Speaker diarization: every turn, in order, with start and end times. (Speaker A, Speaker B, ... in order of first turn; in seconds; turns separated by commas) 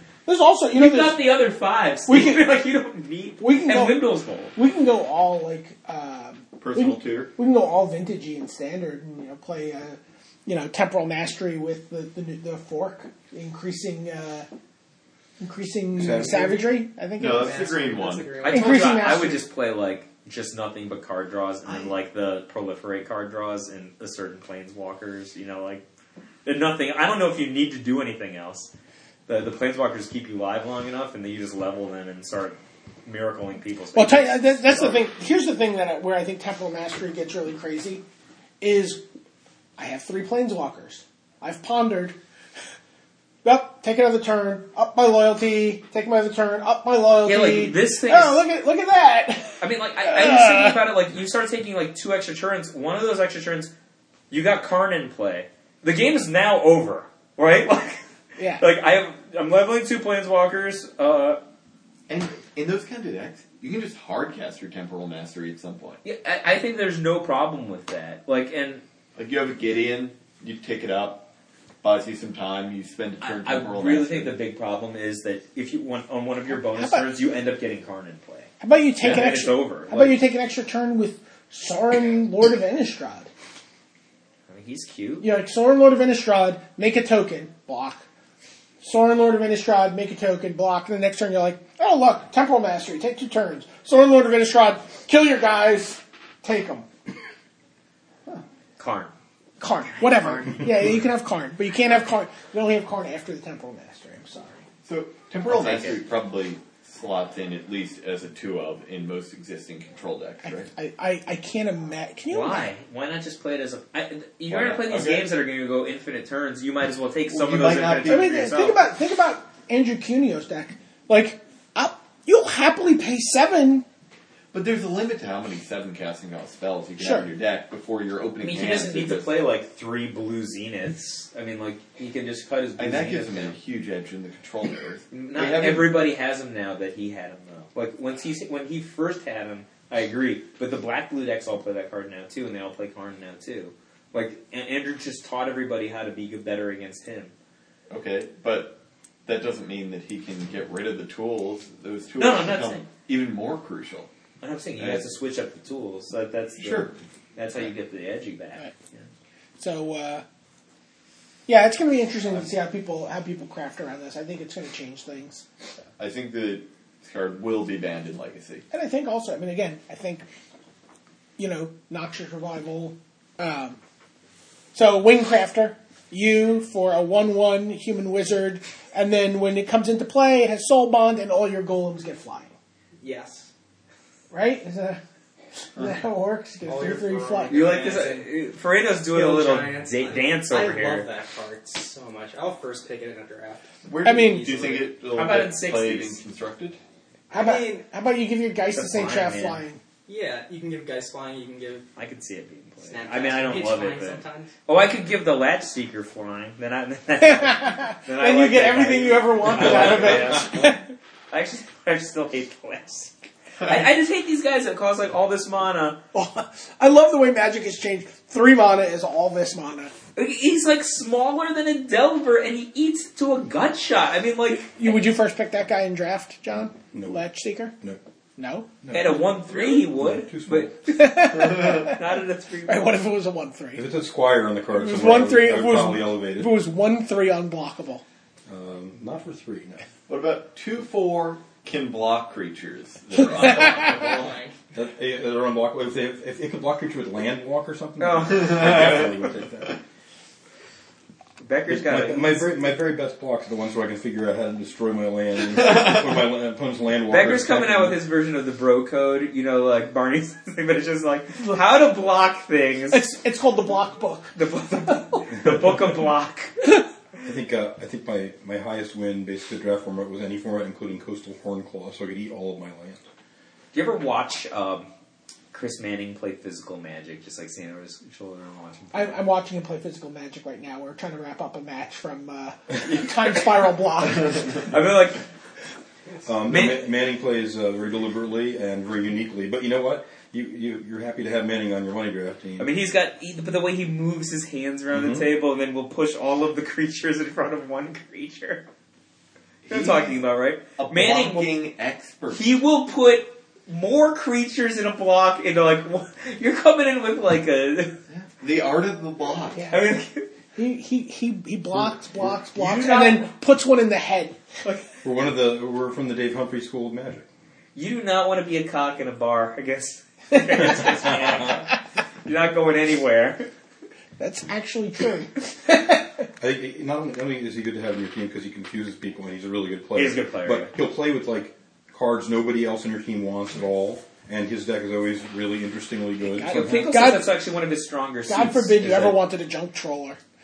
Speaker A: 0.2-1.2, Speaker B: 0.8-4.5, Speaker A: 2.1-2.6, Speaker A: 3.4-4.0, Speaker A: 4.5-14.5, Speaker C: 6.6-7.3, Speaker A: 15.4-17.7, Speaker D: 15.9-16.6, Speaker C: 17.2-18.3, Speaker E: 17.3-19.0, Speaker B: 18.4-25.8, Speaker A: 18.5-19.4, Speaker B: 26.4-28.7, Speaker B: 29.3-35.0, Speaker A: 33.9-38.0, Speaker A: 38.6-39.0, Speaker A: 39.8-42.1, Speaker A: 43.4-50.9, Speaker B: 47.2-48.4, Speaker B: 49.6-53.7, Speaker B: 54.3-58.0, Speaker A: 58.4-58.6, Speaker B: 58.6-61.4, Speaker C: 62.1-66.0, Speaker B: 66.0-68.8, Speaker C: 69.2-71.3, Speaker C: 71.8-74.4, Speaker B: 73.2-78.5, Speaker A: 76.5-77.1, Speaker A: 78.6-83.3, Speaker B: 79.0-80.2, Speaker B: 84.5-85.3, Speaker A: 85.2-88.0, Speaker A: 88.8-96.9, Speaker B: 98.8-99.1, Speaker A: 99.6-104.6, Speaker B: 100.0-100.5, Speaker C: 104.8-110.7, Speaker B: 105.4-106.0, Speaker A: 110.4-112.6, Speaker B: 112.3-118.9, Speaker C: 114.5-115.3, Speaker C: 117.3-118.3, Speaker A: 118.0-123.8, Speaker C: 124.5-129.4, Speaker A: 127.0-127.3, Speaker B: 128.4-133.5, Speaker C: 132.8-136.0, Speaker B: 135.1-147.3, Speaker C: 147.9-154.1, Speaker B: 152.2-152.8, Speaker B: 154.4-159.1, Speaker C: 154.8-155.1, Speaker C: 156.6-156.9, Speaker A: 159.6-160.2, Speaker A: 161.5-165.4, Speaker C: 166.0-168.6, Speaker A: 168.7-170.2, Speaker A: 171.4-173.8, Speaker A: 174.7-182.5, Speaker E: 183.0-183.5, Speaker A: 184.3-185.0, Speaker A: 185.6-187.7, Speaker E: 186.6-188.3, Speaker B: 187.5-191.1, Speaker E: 189.1-193.7, Speaker C: 193.8-196.8, Speaker A: 194.0-194.8, Speaker B: 195.1-196.2, Speaker A: 197.3-199.8, Speaker E: 197.3-197.8, Speaker B: 198.7-199.6, Speaker E: 200.1-201.9, Speaker B: 201.9-210.8, Speaker E: 202.8-204.5, Speaker A: 207.2-210.8, Speaker D: 209.5-210.3, Speaker B: 211.3-216.0, Speaker A: 216.1-219.9, Speaker B: 220.2-225.0, Speaker A: 224.6-227.7, Speaker D: 226.9-227.2, Speaker A: 228.4-228.7, Speaker D: 228.8-230.9, Speaker B: 228.9-233.0, Speaker A: 230.9-232.0, Speaker A: 232.7-233.8, Speaker D: 233.7-236.5, Speaker A: 234.7-238.0, Speaker D: 238.5-239.9, Speaker C: 240.1-244.3, Speaker E: 243.5-244.5, Speaker D: 244.7-249.8, Speaker B: 248.0-249.3, Speaker B: 251.4-252.5, Speaker D: 251.7-258.0, Speaker B: 257.1-263.0, Speaker A: 262.9-265.0, Speaker B: 264.3-266.6, Speaker D: 267.2-273.0, Speaker B: 273.7-274.9, Speaker B: 275.5-279.3, Speaker A: 278.9-284.7, Speaker B: 284.7-285.2, Speaker D: 286.2-292.7, Speaker B: 286.5-286.8, Speaker B: 292.6-298.6, Speaker D: 294.9-295.3, Speaker C: 299.7-300.1, Speaker B: 299.7-301.5, Speaker C: 300.8-302.5, Speaker B: 302.3-308.0, Speaker C: 308.1-309.6, Speaker A: 309.5-309.9, Speaker B: 309.7-310.3, Speaker A: 310.5-314.4, Speaker B: 312.6-313.3, Speaker B: 314.6-314.9, Speaker D: 315.0-317.3, Speaker B: 317.7-323.5, Speaker A: 324.2-326.3, Speaker D: 326.4-336.9, Speaker B: 329.9-330.7, Speaker A: 336.2-337.3, Speaker B: 336.4-339.2, Speaker A: 338.3-340.2